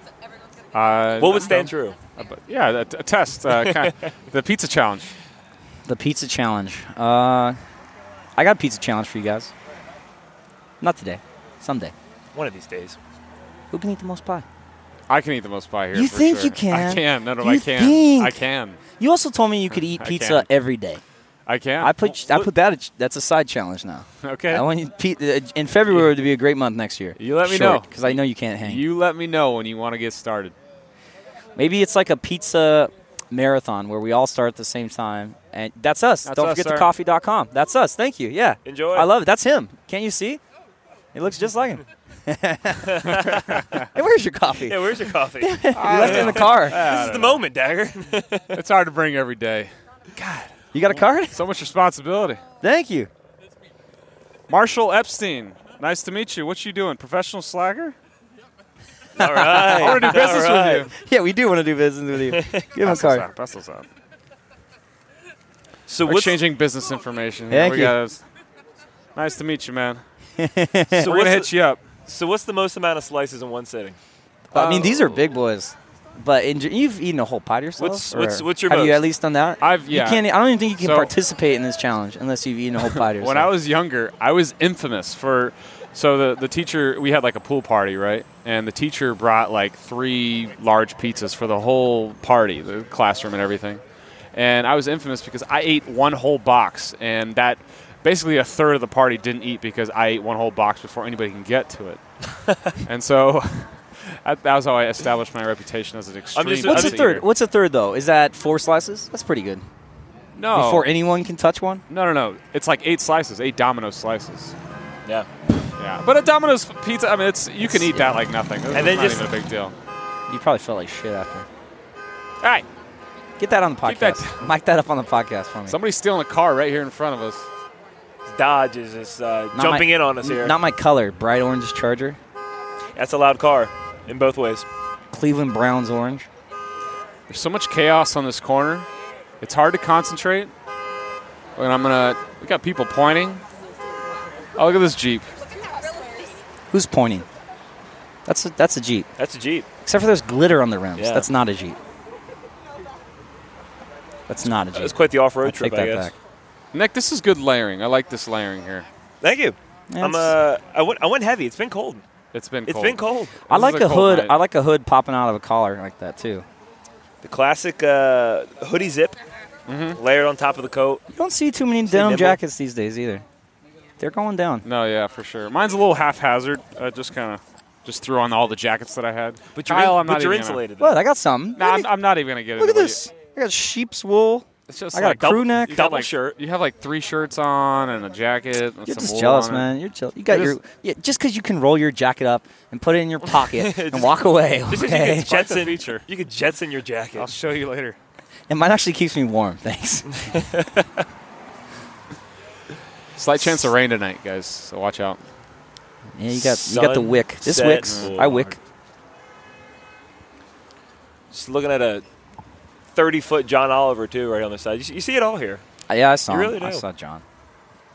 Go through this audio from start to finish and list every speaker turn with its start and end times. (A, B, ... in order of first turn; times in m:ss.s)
0:00.7-0:05.1 A
0:01.2-0:02.0 B
0:05.9-0:07.6 C
0:08.4-0:09.5 C
0:10.8-0:11.9 C
0:12.4-0:13.0 B
0:13.7-0:14.4 C
0:15.1-0:18.8 A
0:15.9-0:18.4 C
0:19.0-0:21.0 C
0:19.7-0:20.5 A
0:21.5-0:22.5 A
0:21.8-0:28.8 C
0:24.2-0:24.6 A
0:27.2-0:30.6 A
0:31.6-0:40.4 C
0:36.2-0:36.9 A
0:38.7-0:39.1 B
0:41.1-0:46.9 C
0:42.8-0:43.6 B
0:43.4-0:43.8 A
0:44.6-0:48.5 B
0:45.7-0:47.4 A
0:48.5-0:52.4 A
0:50.7-0:51.4 C
0:52.6-0:53.1 C
0:54.5-0:58.0 A
0:59.2-1:00.3 C
0:59.2-1:00.9 B
0:59.7-1:00.9 A
1:00.9-1:03.2 C
1:02.3-1:02.6 B
1:02.8-1:03.9 A
1:05.9-1:06.4 B
1:06.0-1:08.2 A
1:07.5-1:08.0 C
1:09.2-1:10.0 A
1:10.4-1:11.1 C
1:10.9-1:11.5 B
1:11.0-1:11.8 A
1:12.0-1:14.0 B
1:14.5-1:23.5 C
1:14.5-1:15.2 A
1:17.8-1:19.0 B
1:19.6-1:21.1 A
1:22.9-1:33.8 A
1:34.3-1:42.0 A
1:42.8-1:47.2 A
1:46.4-1:47.1 B
1:46.6-1:49.6 C
1:50.4-1:50.9 A
1:50.5-1:51.8 C
1:51.9-1:54.6 A
1:55.8-1:59.8 A
1:57.7-1:58.1 C
1:58.7-1:59.3 B
2:00.3-2:01.5 C
2:02.4-2:02.7 A
2:03.4-2:05.8 C
2:03.8-2:04.5 A
2:05.7-2:07.5 A
2:08.3-2:10.5 B
2:09.5-2:12.2 C
2:13.0-2:14.7 B
2:15.1-2:16.3 C
2:17.3-2:18.9 A
2:19.4-2:20.5 A
2:21.6-2:23.4 A
2:24.6-2:25.3 A
2:26.7-2:27.2 C
2:28.3-2:29.1 C
2:29.2-2:29.7 B
2:29.8-2:31.8 C
2:31.0-2:31.3 B
2:34.3-2:36.1 C
2:34.7-2:36.1 B
2:36.7-2:38.9 A
2:39.2-2:42.0 B
2:39.9-2:40.4 C
2:42.3-2:44.4 A
2:42.7-2:43.4 B
2:43.5-2:46.5 C
2:47.2-2:49.2 B
2:49.7-2:50.0 A
2:50.0-2:51.0 B
2:51.1-2:53.2 C
2:51.9-2:52.4 B
2:54.0-2:54.6 C
2:54.6-3:00.6 A
2:59.6-3:01.0 B
3:00.8-3:01.9 C
3:01.6-3:03.0 A
3:02.6-3:05.9 C
3:04.7-3:09.7 A
3:05.0-3:06.4 B
3:08.9-3:15.4 C
3:10.3-3:10.6 A
3:13.4-3:17.3 B
3:15.2-3:16.0 A
3:17.2-3:18.0 A
3:18.5-3:20.3 C
3:20.3-3:20.8 B
3:23.2-3:25.2 A
3:26.2-3:28.6 C
3:26.3-3:28.5 B
3:27.9-3:28.2 A
3:31.3-3:32.0 B
3:33.0-3:35.6 B
3:35.9-3:37.2 C
3:36.3-3:36.8 B